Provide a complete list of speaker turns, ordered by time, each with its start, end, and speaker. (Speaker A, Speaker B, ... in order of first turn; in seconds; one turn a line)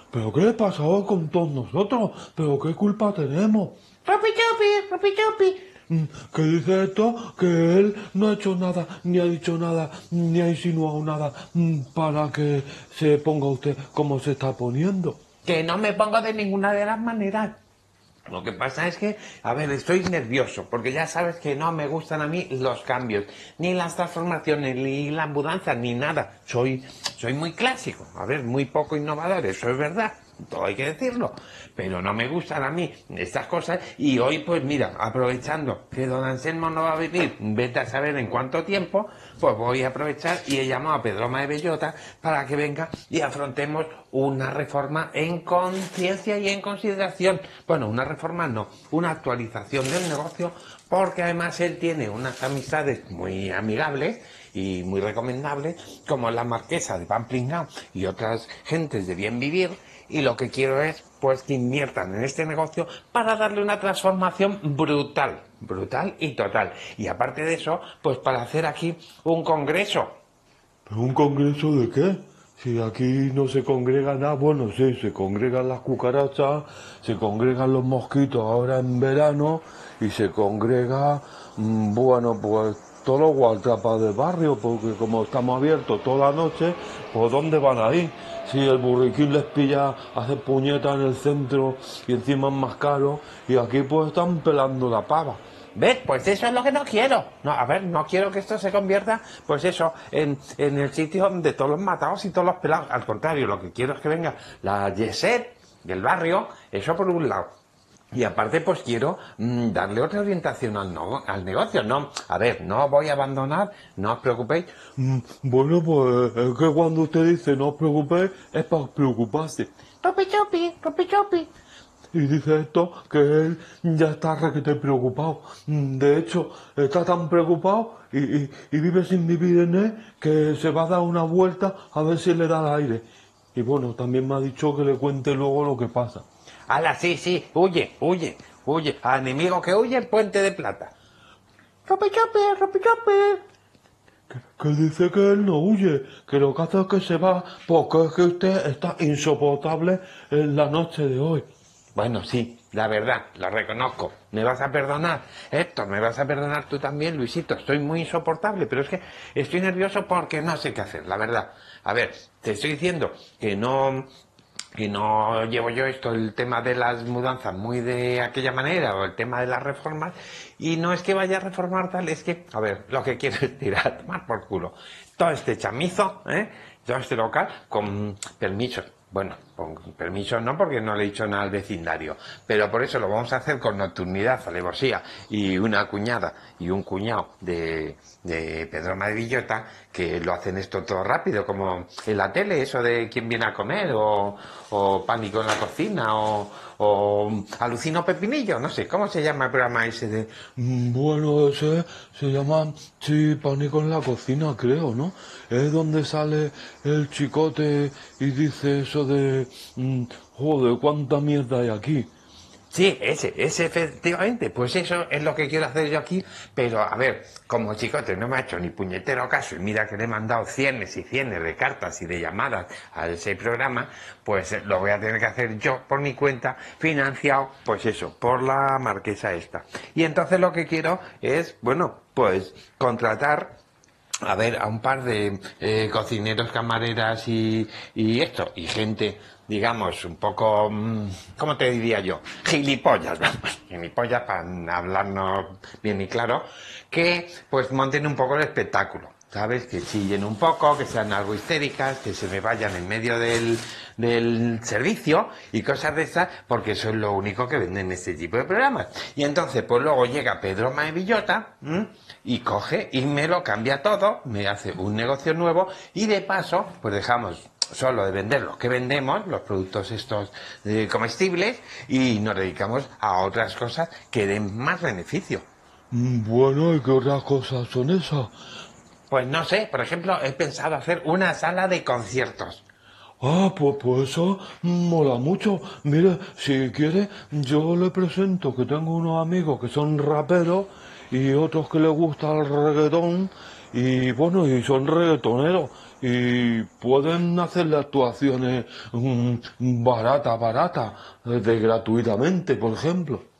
Speaker A: 0.1-3.8
Speaker B: 4.0-5.7
Speaker A: 5.9-15.2
Speaker B: 15.4-17.6
Speaker B: 18.3-70.2
Speaker A: 70.9-95.4
Speaker B: 95.8-107.5
Speaker B: 108.1-114.8
Speaker A: 115.0-119.7
Speaker B: 120.0-121.5
Speaker A: 122.1-136.3
Speaker B: 136.7-140.9
Speaker B: 141.9-143.4
Speaker A: 144.3-151.5
Speaker B: 151.9-164.1
Speaker B: 164.8-200.5
Speaker A: 200.6-212.1
Speaker B: 212.7-233.6
Speaker B: 234.2-275.4
Speaker A: 275.9-278.3
Speaker B: 279.1-282.6
Speaker A: 283.2-303.2